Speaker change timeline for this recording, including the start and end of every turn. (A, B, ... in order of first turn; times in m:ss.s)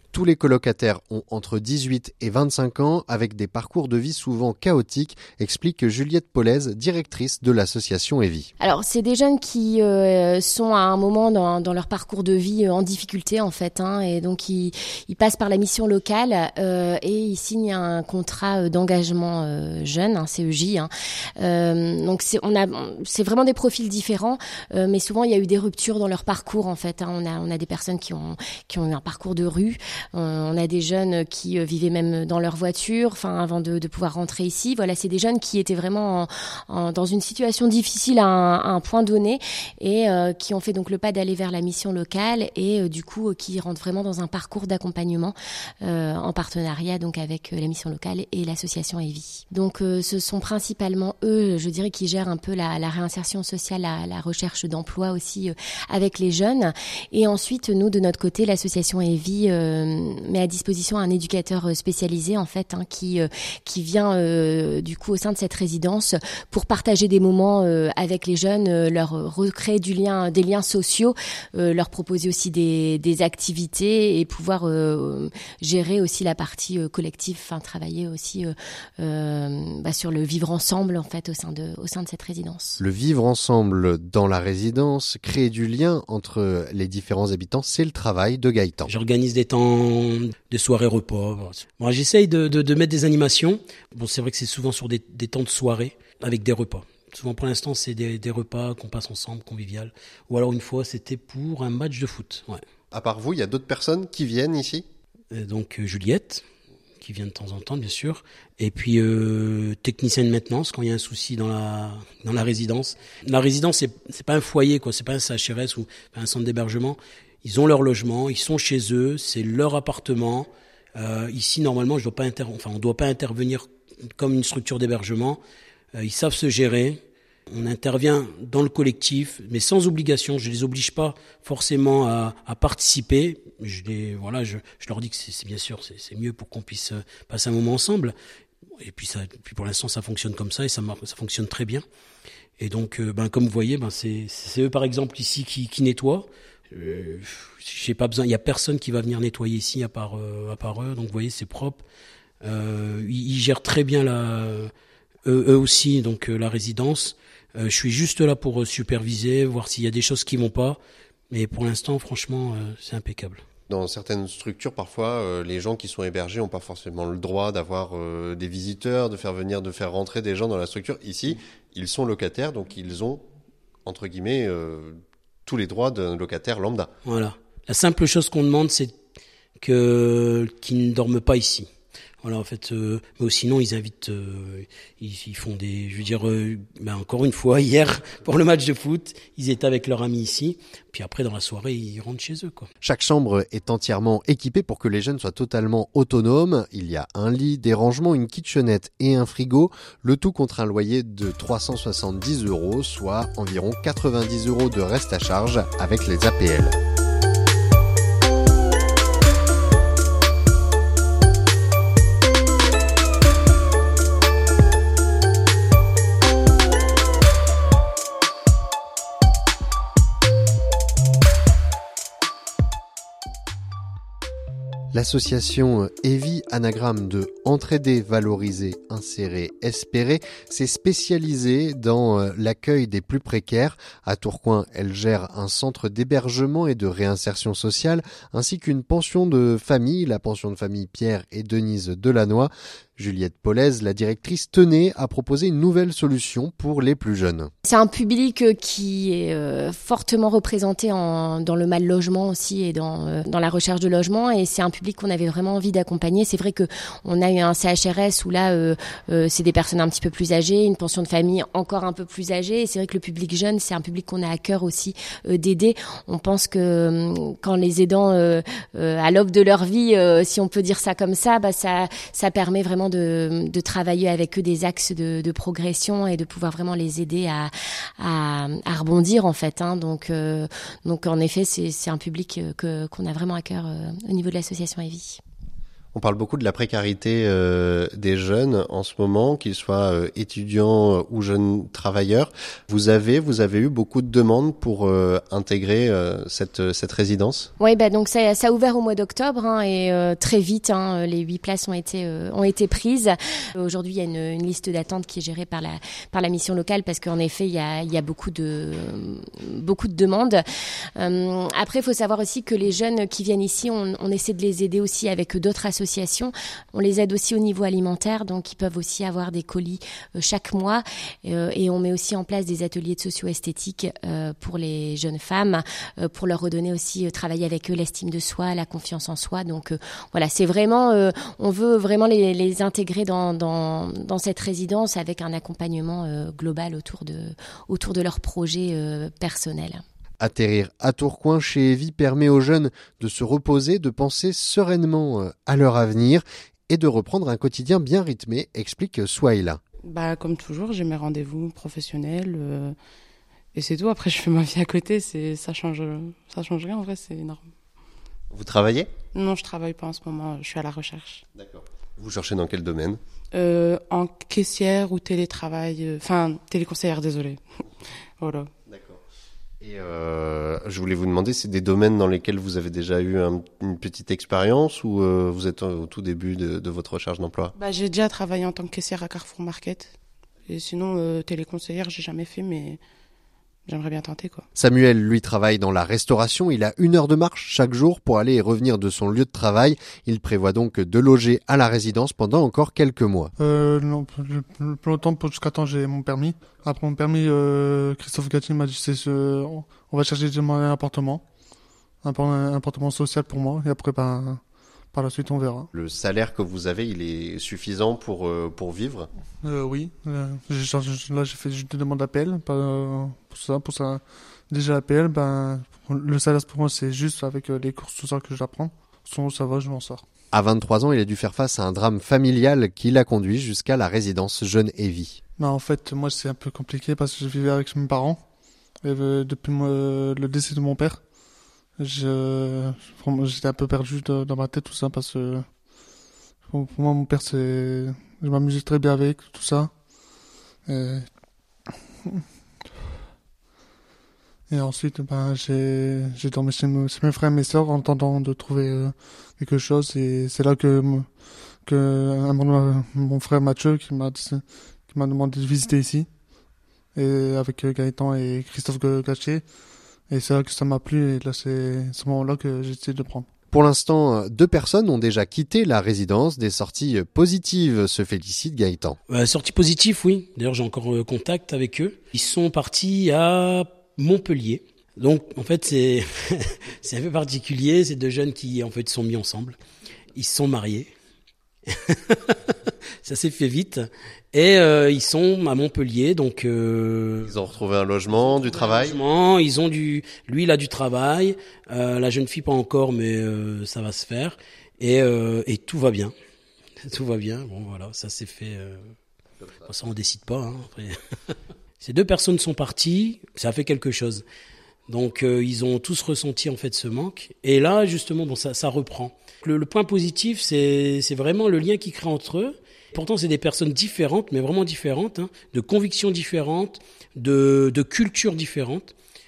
0:00.1-0:08.5 A
0:08.6-1:22.8 B
1:22.8-1:28.9 A
1:28.9-1:42.6 C
1:42.9-1:44.9 D
1:45.3-1:46.4 C
1:47.0-2:05.4 C
2:06.0-2:18.2 C
2:18.8-2:21.8 C
2:22.6-2:31.8 C
2:32.4-2:34.7 C
2:35.3-2:40.8 C
2:41.3-2:43.4 C
2:43.7-2:53.2 D
2:53.8-2:56.9 D
2:57.0-2:58.9 C
2:59.6-3:01.7 C
3:02.2-3:12.7 C
3:12.8-3:26.8 A
3:44.9-4:07.5 A
4:07.6-4:45.2 B
4:45.9-4:57.5 D
4:57.6-5:10.4 B
5:11.0-5:39.8 B
5:40.2-5:49.6 A
5:49.8-5:52.8 E
5:53.6-5:57.4 E
5:58.3-5:58.9 D
5:59.1-6:01.2 E
6:01.4-6:03.0 D
6:03.3-6:07.6 E
6:08.2-6:08.5 E
6:08.7-6:09.0 D
6:09.6-6:17.5 D
6:17.6-6:19.9 E
6:20.5-6:22.8 E
6:23.7-6:24.4 E
6:24.6-6:33.3 A
6:33.4-6:41.2 F
6:42.0-6:44.4 F
6:44.9-6:45.7 F
6:45.7-6:49.1 D
6:49.4-7:00.0 F
7:00.3-7:05.2 A
7:05.4-7:08.2 F
7:08.8-7:11.0 F
7:11.8-7:15.5 F
7:16.5-7:19.7 F
7:20.7-7:21.1 F
7:24.5-7:31.1 F
7:31.6-7:36.1 F
7:37.0-7:39.4 F
7:40.1-7:43.3 F
7:43.5-7:49.0 A
7:49.1-7:59.6 C
8:00.2-8:00.9 C
8:01.7-8:07.4 C
8:07.2-8:09.0 D
8:08.1-8:16.1 C
8:16.8-8:18.8 C
8:19.6-8:24.2 C
8:24.9-8:38.9 C